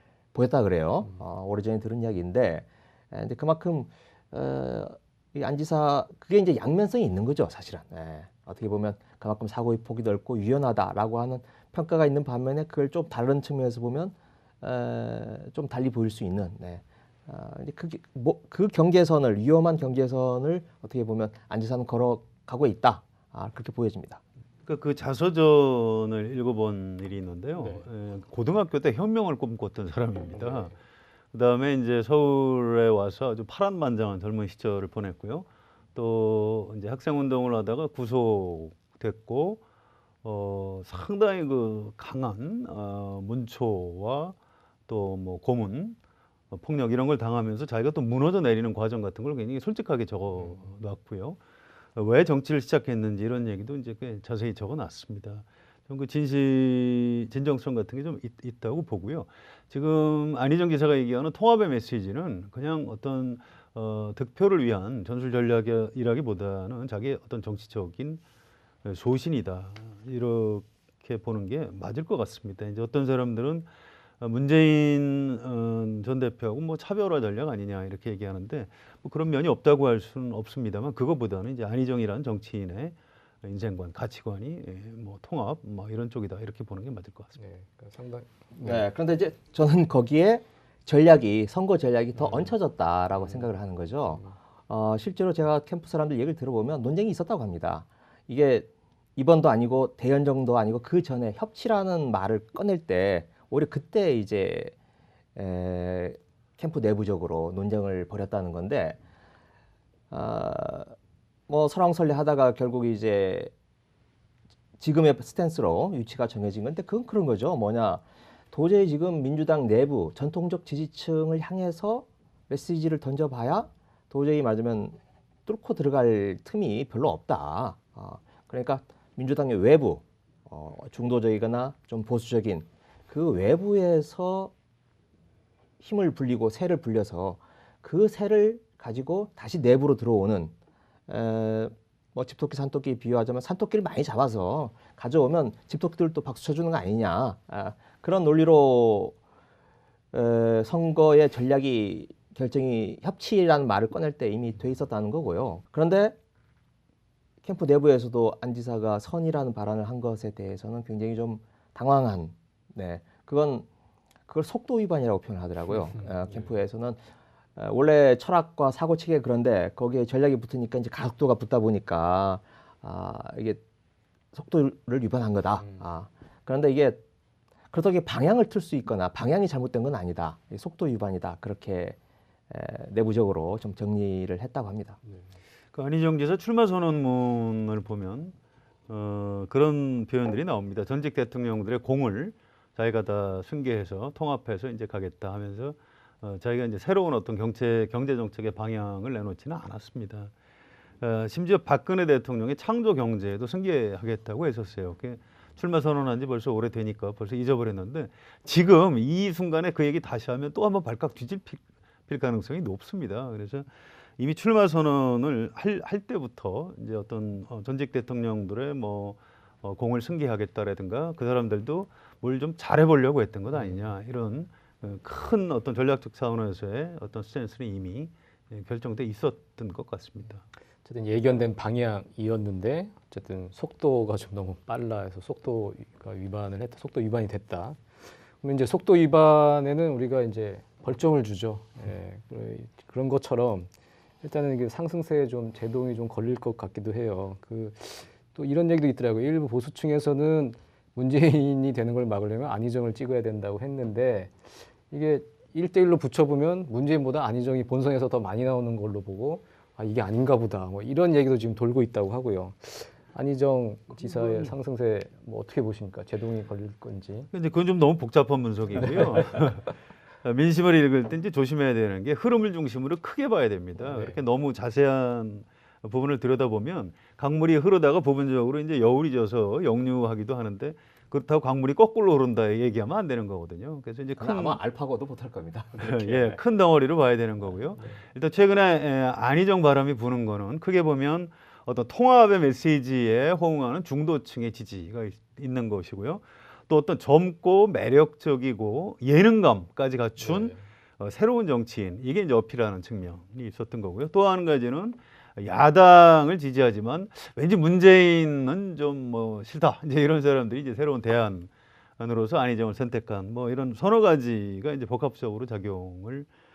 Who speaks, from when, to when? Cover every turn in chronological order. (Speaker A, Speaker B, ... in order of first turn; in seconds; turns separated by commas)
Speaker A: 0.3-24.2, Speaker B: 24.7-30.7, Speaker C: 27.6-27.9, Speaker C: 30.4-30.7, Speaker B: 31.3-39.6, Speaker B: 40.2-44.4, Speaker B: 44.9-46.0, Speaker B: 46.5-51.4, Speaker C: 50.4-50.6, Speaker B: 52.0-68.2, Speaker B: 68.8-73.7, Speaker B: 74.2-87.4, Speaker C: 87.4-88.9, Speaker A: 88.6-104.7, Speaker C: 92.2-92.5, Speaker A: 105.4-109.0, Speaker A: 110.1-110.9, Speaker A: 111.5-113.5, Speaker A: 114.8-134.5, Speaker A: 135.8-140.5, Speaker A: 141.1-149.2, Speaker A: 150.1-156.2, Speaker A: 157.4-163.7, Speaker A: 164.3-167.0, Speaker C: 165.9-166.4, Speaker A: 167.6-173.6, Speaker A: 174.3-177.0, Speaker A: 177.7-182.0, Speaker A: 182.5-185.0, Speaker B: 185.7-188.3, Speaker B: 188.9-200.3, Speaker B: 201.0-230.4, Speaker C: 223.6-223.8, Speaker C: 230.8-237.8, Speaker C: 238.4-243.7, Speaker C: 244.2-267.3, Speaker B: 267.3-284.6, Speaker C: 273.8-274.2, Speaker A: 284.2-286.4, Speaker B: 285.8-316.3, Speaker C: 300.2-300.6